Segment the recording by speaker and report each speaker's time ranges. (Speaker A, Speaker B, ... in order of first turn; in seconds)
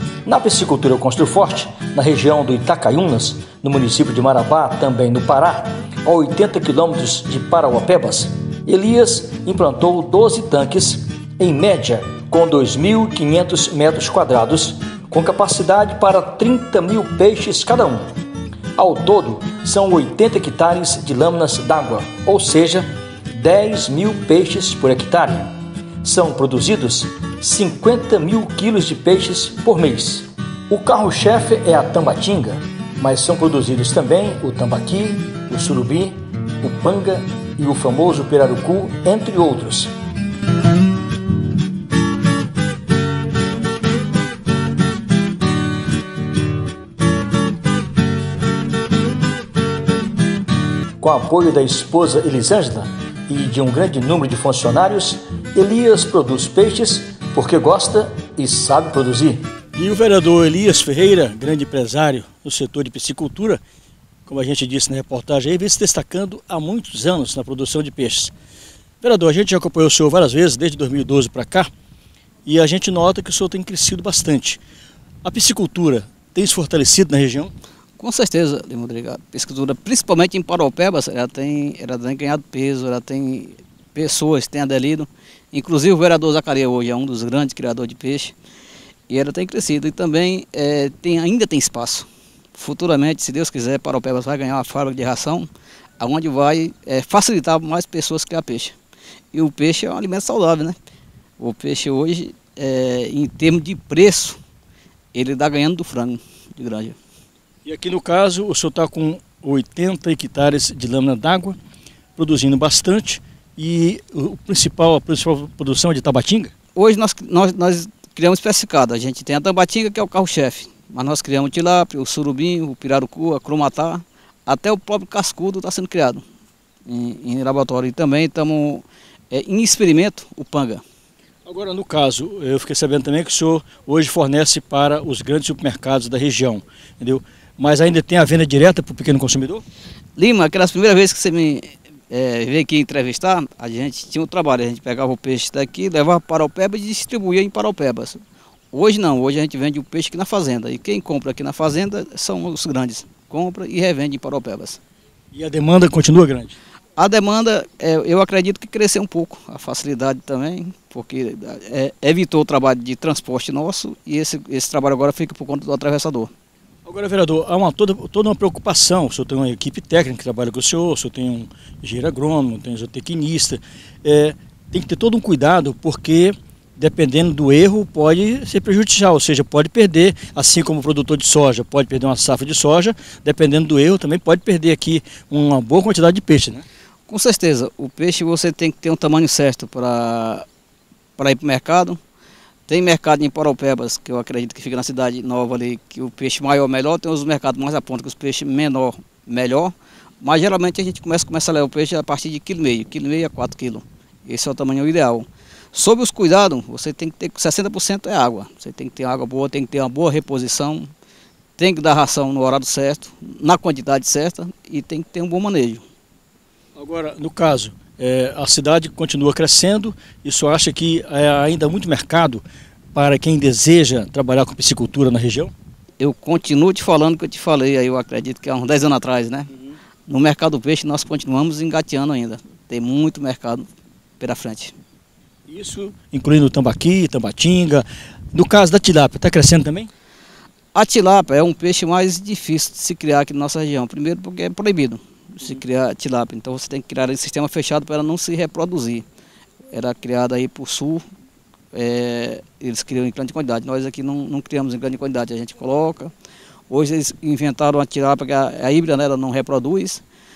Speaker A: 0.2-18.1, 18.8-25.5, 26.0-39.9, 51.0-59.4
Speaker B: 59.8-63.6, 64.3-68.3, 69.0-71.7, 72.5-74.6, 75.2-77.5, 107.6-111.6, 112.2-116.5, 131.4-139.6, 155.3-156.6, 166.8-186.6, 216.8-225.5, 235.5-239.9
Speaker C: 78.0-88.3, 89.1-95.5, 96.0-98.7, 99.3-100.8, 101.4-104.4, 105.1-107.0, 116.8-126.2, 126.8-130.8, 140.2-148.2, 148.7-154.8, 157.0-166.3, 187.1-190.4, 191.2-192.0, 192.7-210.9, 211.6-215.8, 226.0-229.5, 230.1-233.7, 234.2-234.7, 240.7-249.0, 249.7-251.0, 251.7-256.1, 256.7-260.0